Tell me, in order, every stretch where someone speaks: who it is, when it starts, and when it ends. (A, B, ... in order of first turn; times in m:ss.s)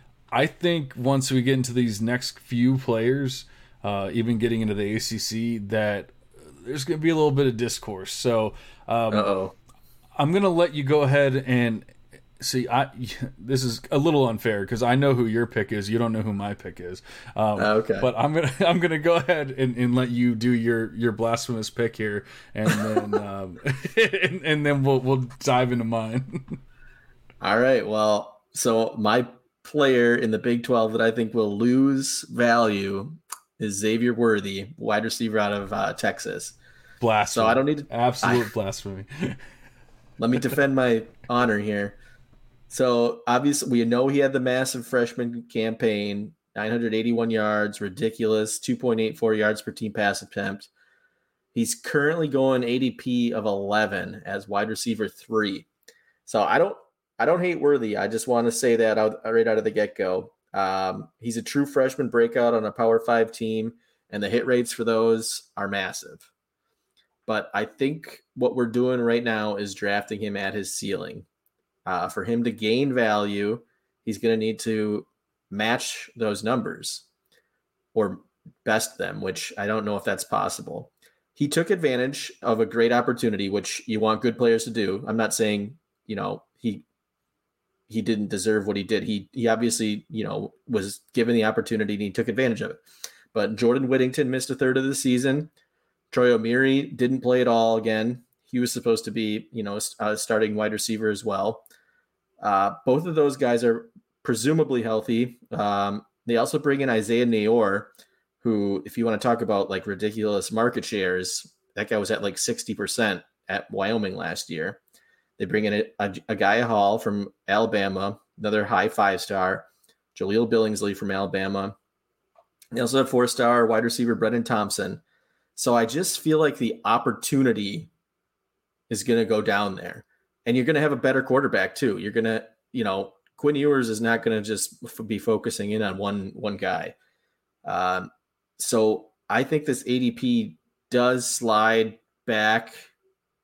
0:00.3-0:09.3 A
0:09.1-0:09.6 B
0:10.2-0:26.6 A
0:17.6-0:18.1 B
0:27.4-0:36.6 B
0:37.0-0:39.4 A
0:37.3-0:38.5 B
0:40.2-0:42.0 B
0:42.7-0:50.7 B
0:51.5-0:55.7 B
0:56.3-1:06.3 B
1:07.3-1:11.3 B
1:11.9-1:17.1 B
1:17.9-1:26.8 B
1:27.9-1:32.8 B
1:33.3-1:35.5 B
1:36.1-1:41.6 B
1:42.4-1:47.9 B
1:48.4-1:54.8 B
1:55.4-2:01.8 B
2:02.7-2:05.0 B
2:05.6-2:07.9 B
2:08.9-2:17.0 B
2:17.6-2:22.9 B